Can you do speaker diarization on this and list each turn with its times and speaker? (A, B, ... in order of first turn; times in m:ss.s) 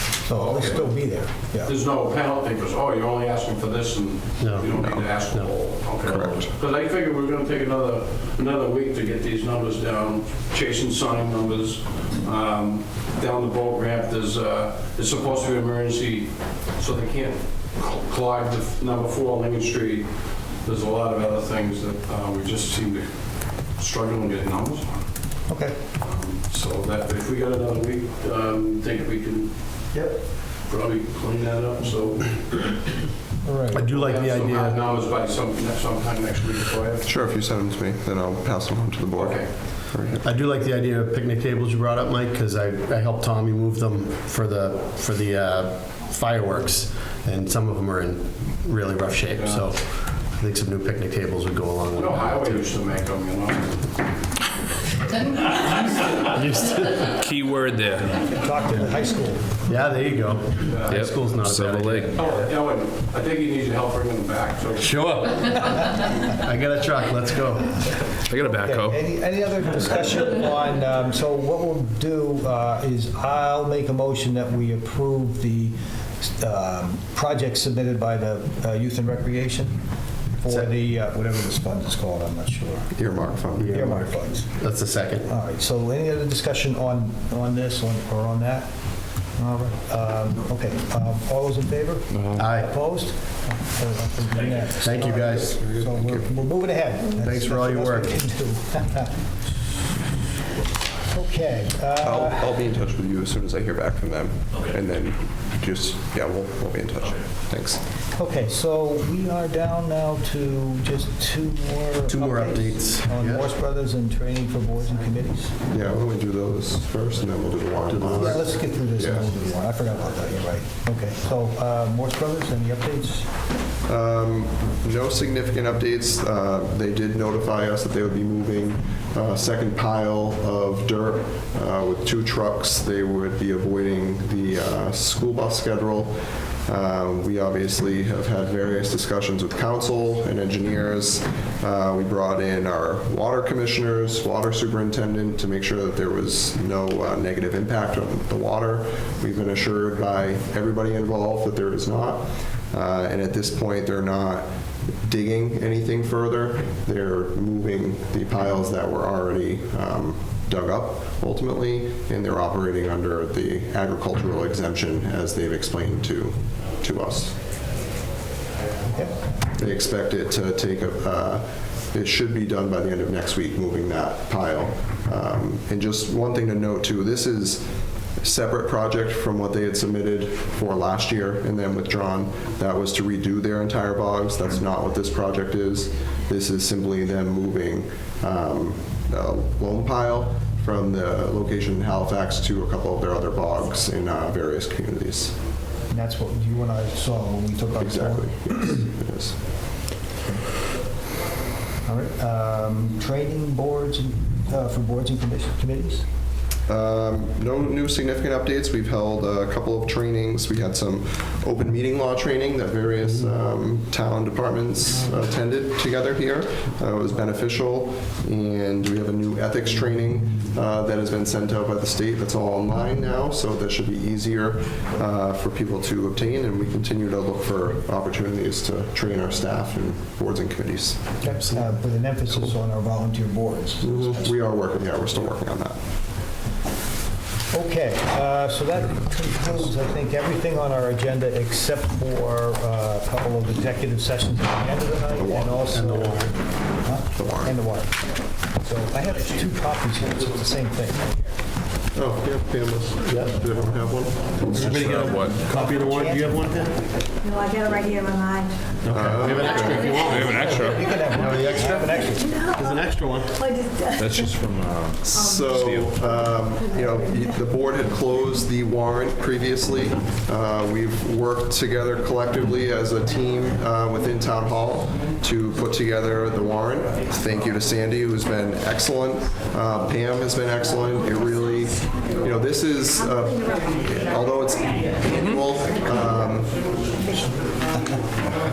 0:00.2-0:01.7 A
0:00.3-0:01.0 B
0:01.6-0:20.1 B
0:04.4-0:04.7 C
0:04.7-0:05.1 D
0:06.0-0:06.5 D
0:20.6-0:23.1 B
0:23.8-0:25.0 B
0:25.5-0:25.8 A
0:26.0-0:30.1 B
0:30.6-0:32.7 B
0:33.4-0:33.8 A
0:33.7-0:34.8 C
0:33.9-0:37.1 B
0:37.0-0:40.3 D
0:39.2-0:39.5 B
0:40.2-0:52.6 C
0:49.4-0:49.7 B
0:51.9-0:53.9 B
0:56.1-0:57.2 C
0:57.2-0:58.2 E
0:58.3-0:59.6 A
0:59.7-1:02.2 C
1:00.6-1:01.1 B
1:00.9-1:02.2 E
1:02.1-1:05.0 B
1:04.8-1:08.0 C
1:08.3-1:09.0 E
1:08.3-1:19.8 A
1:20.4-1:24.5 A
1:23.0-1:23.8 D
1:23.6-1:25.3 C
1:25.3-1:28.7 A
1:29.4-1:39.2 A
1:32.1-1:32.4 E
1:32.4-1:32.7 C
1:34.8-1:35.6 C
1:35.3-1:36.3 D
1:37.2-1:38.2 C
1:41.1-1:42.6 A
1:42.0-1:47.8 D
1:48.2-1:55.6 A
1:52.1-1:53.5 C
1:55.7-1:59.3 D
1:57.9-1:58.5 C
1:58.1-2:03.3 A
2:03.9-2:34.5 D
2:35.0-2:47.4 D
2:49.6-2:57.6 D
2:58.2-3:15.4 D
3:15.9-3:18.9 A
3:17.8-3:19.4 D
3:21.8-3:26.1 A
3:26.7-3:51.2 D
3:51.2-3:54.4 A
3:53.8-3:55.8 D
3:57.5-4:08.0 A
4:05.1-4:05.6 D
4:05.7-4:06.3 C
4:07.2-4:07.6 D
4:08.6-4:11.2 A
4:11.9-4:14.7 D
4:13.1-4:13.4 C
4:14.5-4:15.4 E
4:14.5-4:16.8 C
4:15.8-4:16.4 A
4:17.2-4:18.6 F
4:18.8-4:23.3 C
4:18.9-4:19.9 D
4:19.3-4:20.4 F
4:19.9-4:20.9 E
4:20.2-4:22.4 A
4:21.6-4:24.4 F
4:24.0-4:25.9 E
4:25.0-4:46.7 D
4:25.1-4:27.4 F